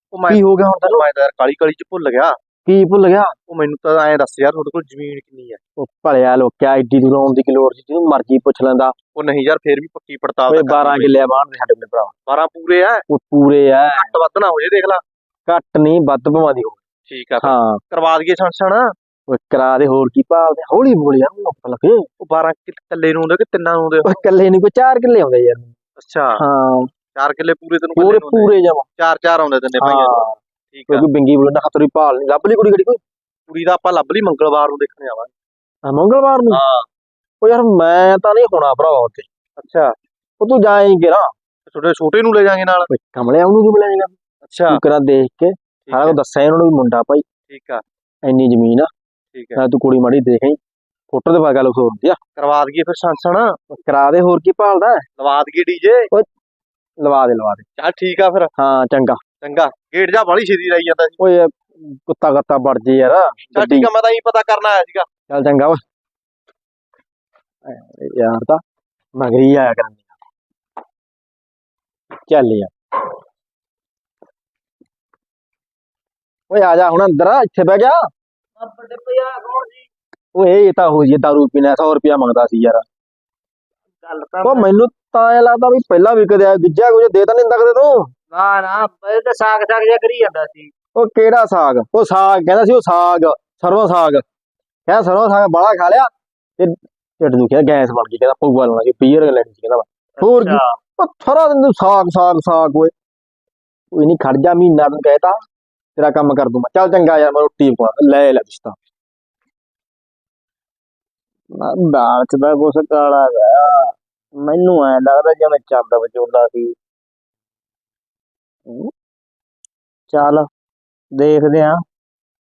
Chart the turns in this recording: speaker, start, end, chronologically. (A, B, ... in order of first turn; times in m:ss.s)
0:00.1-0:02.4 A
0:00.3-0:01.0 B
0:02.6-0:03.3 B
0:03.5-0:05.6 A
0:05.8-0:08.9 B
0:09.2-0:11.2 A
0:10.5-0:12.2 B
0:12.3-0:13.0 A
0:13.1-0:14.1 B
0:13.9-0:15.0 A
0:15.5-0:16.8 B
0:17.1-0:18.9 A
0:17.4-0:17.8 B
0:19.3-0:22.1 B
0:22.2-0:24.2 A
0:24.0-0:25.7 B
0:26.0-0:26.4 A
0:26.4-0:26.9 B
0:27.2-0:31.1 A
0:28.0-0:28.9 B
0:29.8-0:30.4 B
0:30.9-0:33.0 B
0:33.5-0:35.3 A
0:35.8-0:36.6 B
0:36.5-0:36.9 A
0:37.4-0:39.2 B
0:39.6-0:39.9 A
0:40.4-0:41.3 B
0:41.7-0:42.9 A
0:42.9-0:44.2 B
0:44.4-0:44.8 A
0:44.7-0:47.2 B
0:45.9-0:46.2 A
0:47.5-0:47.8 A
0:48.2-0:48.9 B
0:49.3-0:49.6 A
0:49.6-0:50.6 B
0:51.1-0:52.2 B
0:52.4-0:53.6 A
0:53.7-0:55.0 B
0:55.2-0:56.1 A
0:57.0-0:57.6 B
0:57.8-0:58.5 A
0:58.6-0:59.2 B
0:59.4-1:01.2 A
1:01.2-1:03.9 B
1:03.6-1:05.1 A
1:05.3-1:05.8 B
1:07.7-1:08.6 B
1:09.2-1:10.1 B
1:12.3-1:12.7 B
1:16.5-1:18.0 B
1:18.6-1:19.9 C
1:20.4-1:22.8 B
1:24.0-1:24.7 C
1:24.4-1:28.1 B
1:28.3-1:30.7 C
1:31.0-1:34.2 B
1:34.9-1:42.9 B
1:40.2-1:40.8 C
1:43.9-1:45.4 B
1:46.0-1:48.8 B
1:51.6-1:56.8 C
2:00.1-2:00.5 C
2:01.2-2:01.8 C